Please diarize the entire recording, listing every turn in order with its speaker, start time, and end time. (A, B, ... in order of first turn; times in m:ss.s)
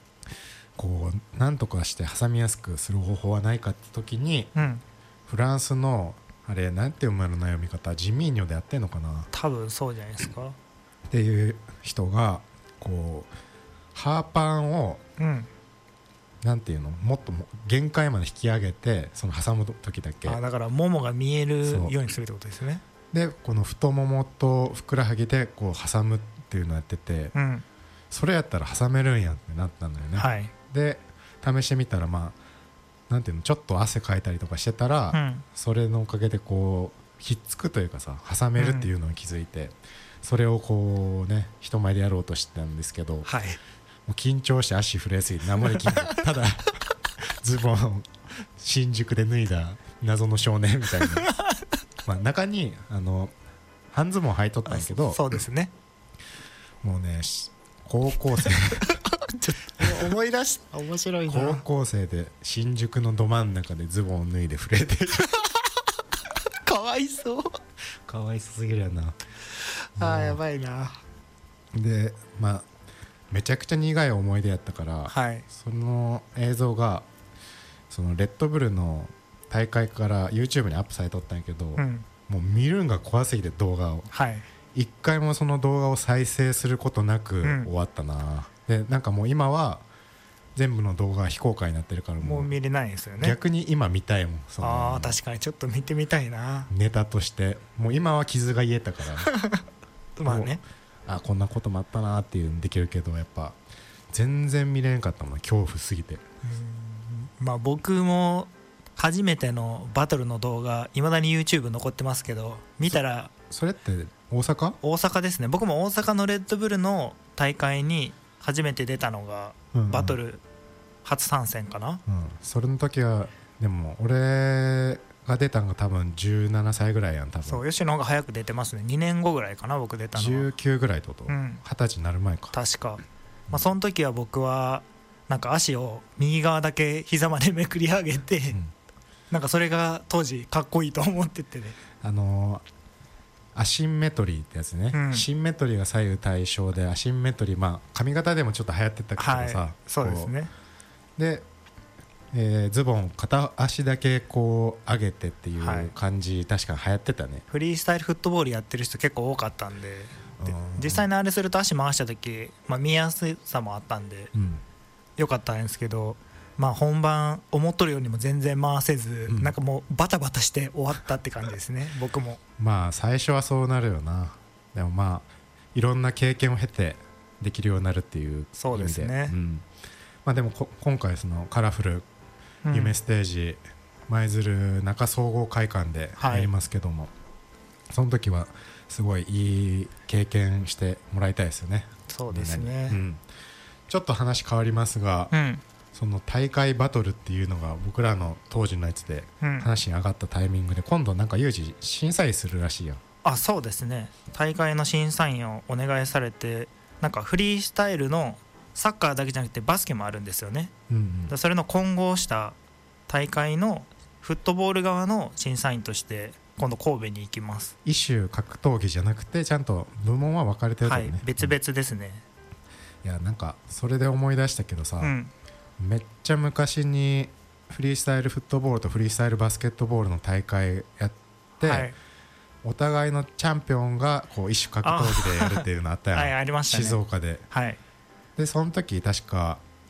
0:00.8-0:04.5 A
0:04.5-0:04.8 B
0:05.3-0:09.3 A
0:09.3-0:10.6 B
0:11.1-0:13.3 A
0:13.9-0:15.0 A
0:15.2-0:15.5 B
0:16.4-0:20.4 A
0:20.2-0:22.8 B
0:21.6-0:21.9 A
0:23.1-0:27.3 A
0:27.3-0:27.6 B
0:28.1-0:32.4 A
0:30.2-0:30.5 B
0:33.1-0:43.3 A
0:35.1-0:35.4 B
0:38.6-0:38.9 B
0:43.2-0:43.6 B
0:44.1-0:46.7 A
0:45.6-0:46.2 B
0:47.2-0:51.3 A
0:51.2-0:51.5 B
0:52.0-0:53.3 A
0:53.9-0:55.2 A
0:54.6-0:55.7 B
0:56.8-0:58.9 A
0:58.8-1:01.6 B
1:01.3-1:05.3 A
1:05.3-1:05.6 B
1:06.6-1:07.6 B
1:08.0-1:09.2 A
1:09.9-1:11.0 B
1:10.0-1:10.4 A
1:11.7-1:12.6 A
1:13.3-1:17.0 A
1:15.1-1:15.4 B
1:17.9-1:24.1 A
1:21.8-1:22.0 B
1:24.1-1:24.4 B
1:24.7-1:29.8 A
1:27.4-1:27.7 B
1:30.5-1:32.5 A
1:32.2-1:33.4 B
1:33.2-1:35.2 A
1:34.6-1:36.7 B
1:36.7-1:39.3 A
1:39.2-1:39.6 B
1:40.2-1:40.6 B
1:40.2-1:43.6 A
1:44.1-1:46.2 A
1:46.4-1:53.3 B
1:53.5-1:54.8 A
1:54.8-2:00.4 B
1:59.7-2:00.2 A
2:01.0-2:02.0 B
2:02.1-2:07.6 A
2:07.4-2:10.5 B
2:10.1-2:12.6 A
2:11.3-2:11.6 B
2:12.5-2:18.6 B
2:19.3-2:21.8 B
2:22.0-2:22.6 A
2:23.5-2:30.3 A
2:24.9-2:25.2 B
2:29.2-2:30.5 B
2:31.2-2:31.4 A
2:32.3-2:37.4 A
2:35.6-2:35.9 B
2:37.5-2:44.3 B
2:40.4-2:41.1 A
2:44.3-2:44.6 A
2:45.2-2:52.4 B
2:49.3-2:49.5 A
2:52.6-2:59.7 A
2:58.6-2:59.4 B
3:00.2-3:02.0 A
3:02.6-3:03.0 B
3:02.7-3:07.1 A
3:06.2-3:06.5 B
3:07.9-3:13.2 A
3:12.1-3:13.0 B
3:13.9-3:15.3 A
3:15.3-3:15.6 B
3:15.9-3:23.0 A
3:19.4-3:19.7 B
3:23.2-3:30.7 B
3:30.9-3:31.3 A
3:31.3-3:32.6 B
3:33.1-3:37.7 B
3:37.8-3:41.5 A
3:40.8-3:42.2 B
3:43.0-3:45.1 A
3:45.0-3:45.3 B
3:45.8-3:51.9 A
3:51.6-3:51.9 B
3:52.6-3:57.4 A
3:54.8-3:57.8 B
3:58.4-3:59.6 A